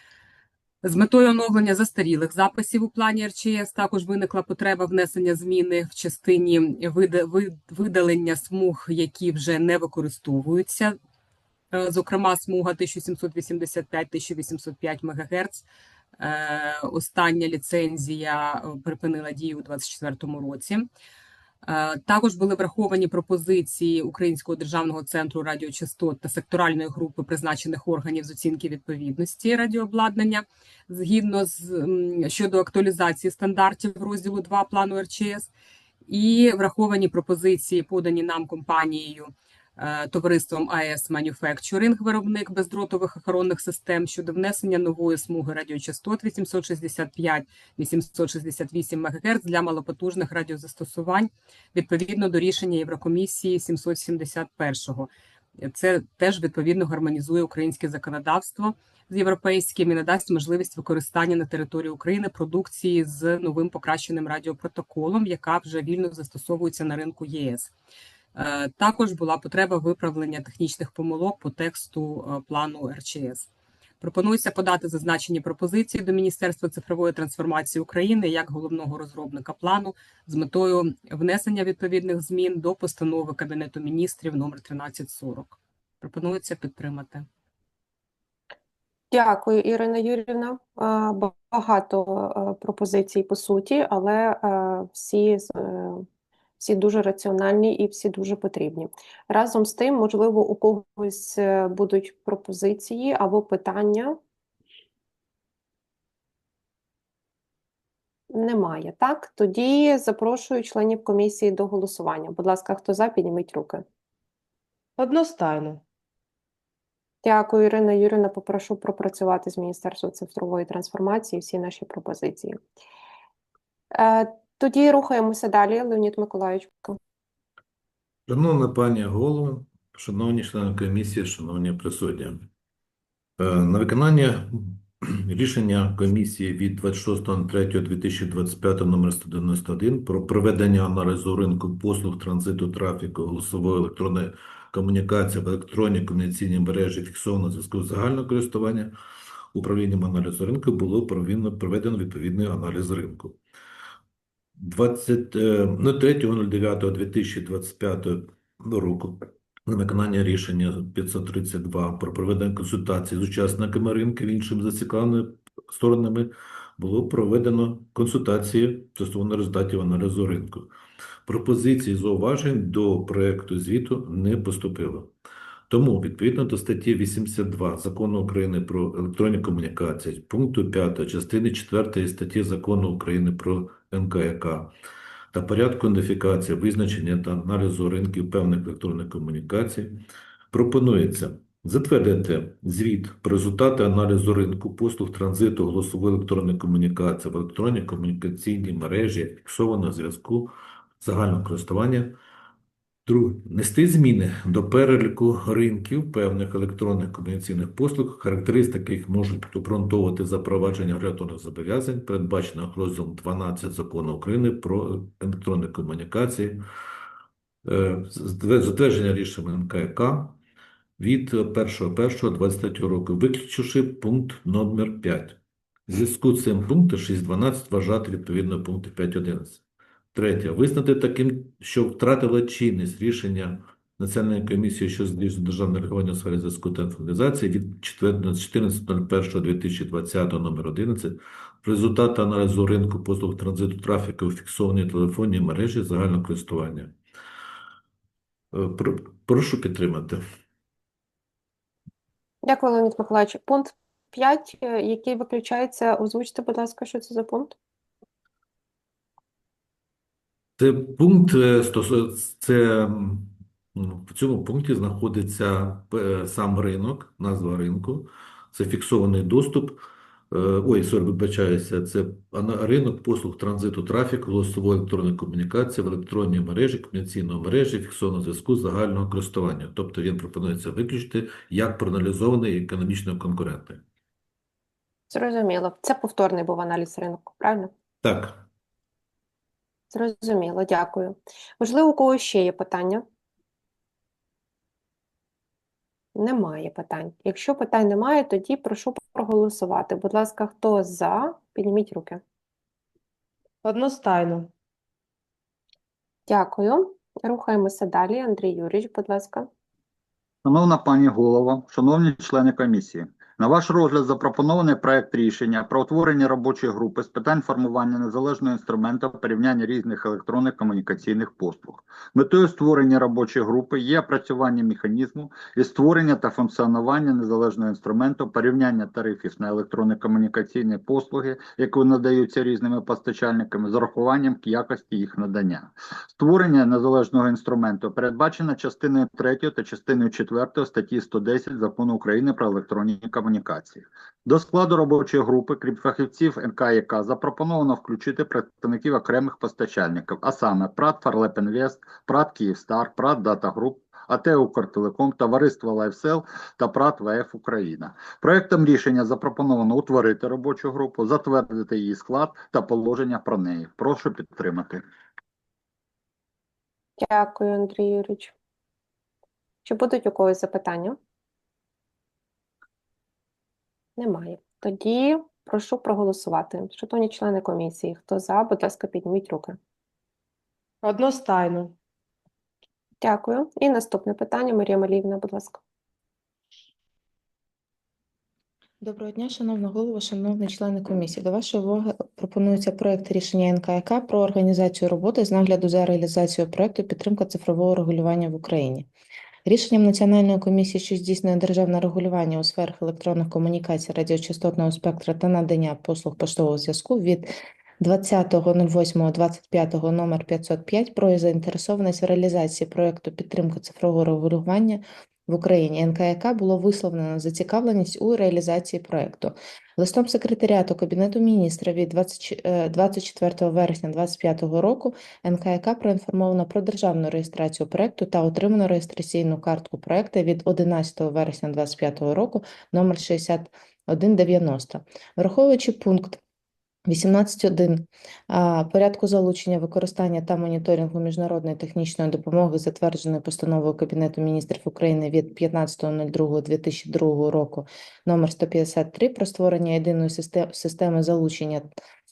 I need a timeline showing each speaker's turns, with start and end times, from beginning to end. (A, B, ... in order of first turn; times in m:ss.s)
0:00.8-0:11.0 A
0:11.7-0:15.7 A
0:16.2-0:20.9 A
0:21.6-0:35.5 A
0:36.1-0:55.1 A
0:55.6-1:07.7 A
1:08.4-1:13.5 A
1:14.0-1:27.3 A
1:29.1-1:36.0 B
1:36.6-1:44.2 B
1:48.3-1:53.8 B
1:55.0-1:55.8 C
1:57.2-2:02.6 B
2:04.0-2:07.0 B
2:08.3-2:12.5 D
2:13.4-2:28.9 D
2:29.5-2:33.4 D
2:34.6-2:50.7 D
2:51.3-2:55.1 D
2:55.7-3:04.7 D
3:05.3-3:10.0 D
3:10.5-3:22.2 D
3:23.1-3:36.6 D
3:37.6-3:40.4 D
3:41.0-3:49.6 D
3:50.1-4:06.9 D
4:08.5-4:10.2 D
4:12.4-4:17.6 B
4:20.6-4:43.8 D
4:45.1-4:47.7 B
4:48.0-4:48.4 D
4:49.9-4:53.0 B
4:56.2-5:02.2 B
5:03.6-5:04.5 C
5:06.3-5:09.5 B
5:10.4-6:04.8 E
6:07.0-6:08.3 B
6:09.6-6:11.0 B
6:14.0-6:19.6 B
6:20.8-6:21.7 C
6:23.0-6:25.6 B
6:28.8-6:38.9 F
6:39.5-7:16.2 F
7:16.9-7:31.7 F